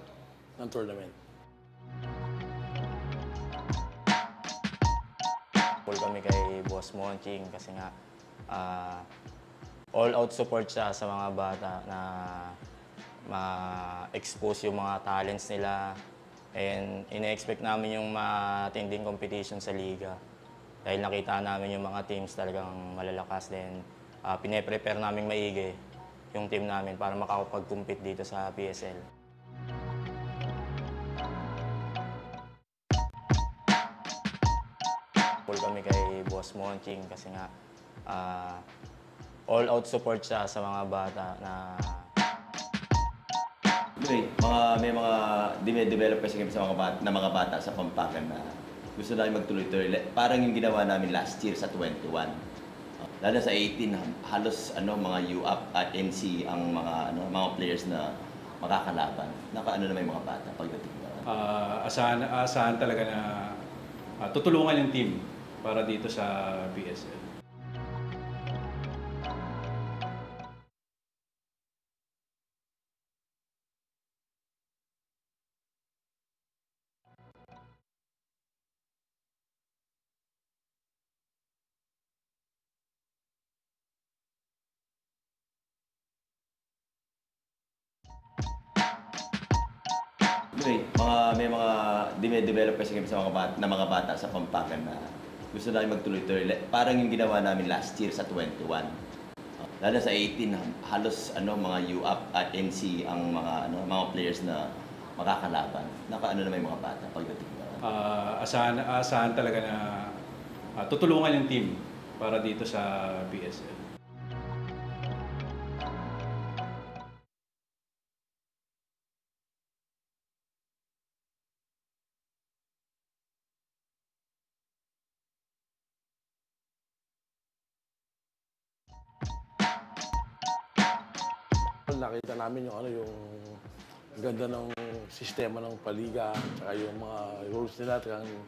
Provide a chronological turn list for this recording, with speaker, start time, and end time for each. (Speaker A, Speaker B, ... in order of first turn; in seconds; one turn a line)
Speaker A: 0.6-1.1
Speaker B: 5.9-7.9
Speaker B: 8.5-9.1
Speaker B: 10.0-12.6
Speaker B: 13.3-16.0
Speaker B: 16.6-20.2
Speaker B: 20.9-25.8
Speaker B: 26.3-29.0
Speaker B: 35.5-37.5
Speaker B: 38.1-38.6
Speaker B: 39.5-42.1
Speaker C: 44.0-48.4
Speaker C: 49.0-52.4
Speaker C: 53.2-58.1
Speaker C: 58.6-61.2
Speaker D: 61.3-63.5
Speaker D: 64.2-67.3
Speaker C: 90.5-95.0
Speaker C: 95.5-98.9
Speaker C: 99.8-104.7
Speaker C: 105.2-107.8
Speaker D: 107.8-110.1
Speaker D: 110.8-113.8
Speaker A: 131.9-133.6
Speaker A: 134.2-138.3